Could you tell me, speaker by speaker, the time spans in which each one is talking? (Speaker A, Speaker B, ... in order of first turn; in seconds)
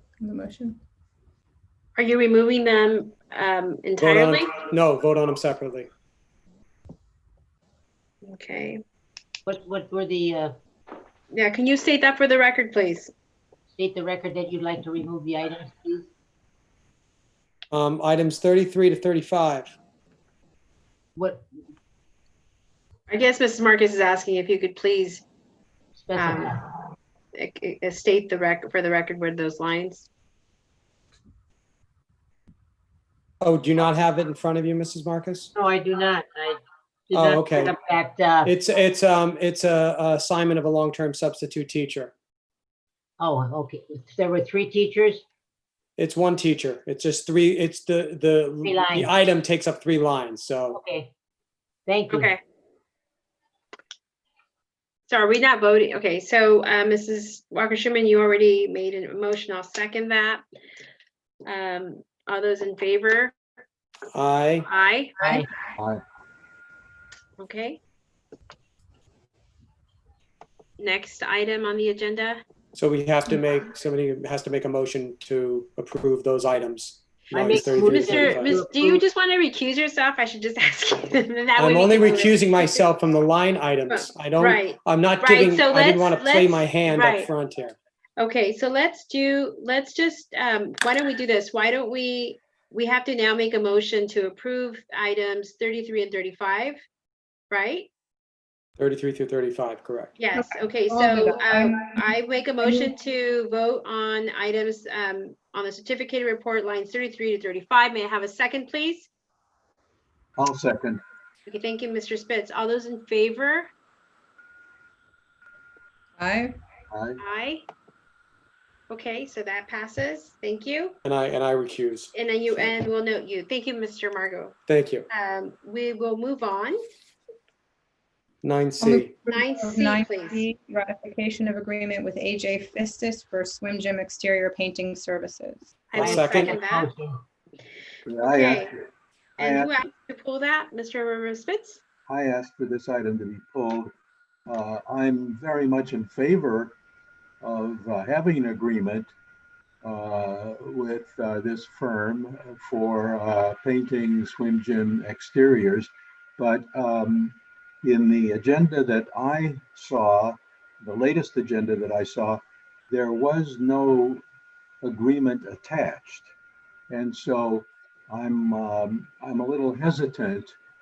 Speaker A: 0.2-0.8, 100.3-102.9, 116.2-116.5, 128.8-136.4
Speaker B: 2.0-4.6, 8.2-8.8, 11.3-13.1, 23.1-25.2, 26.2-26.6, 27.4-30.1, 52.1-52.4, 55.1-60.4, 61.5-63.3, 64.7-65.4, 67.4-67.8, 70.8-72.4, 77.7-82.9, 83.9-87.3, 88.2-96.8, 97.5-97.9, 100.2-109.1, 111.5-113.7, 117.2-117.7, 118.9-121.0, 122.1-124.5, 125.1-126.8, 129.3-130.4, 135.9-136.9, 138.2-138.7, 139.4-141.8
Speaker C: 4.0-5.9, 17.7-19.7, 33.4-35.5, 37.1-37.7, 38.4-42.1, 46.0-50.8, 64.1-64.7, 72.7-78.5, 81.6-87.8, 98.8-100.2, 121.0-122.1, 124.7-125.1, 128.4-129.1, 136.0-136.5
Speaker D: 9.5-10.5, 13.7-16.1, 21.2-21.4, 26.0-26.6, 35.5-38.5, 43.2-45.2, 48.6-49.1, 50.7-51.1, 51.9-52.3, 65.2-65.5, 77.3-79.0, 135.9-137.2
Speaker E: 110.4-111.0, 116.9-117.2, 138.1-138.8, 139.4-139.8, 142.1-143.9, 144.5-146.8, 147.4-149.1, 149.8-164.2, 164.8-166.3, 166.9-170.6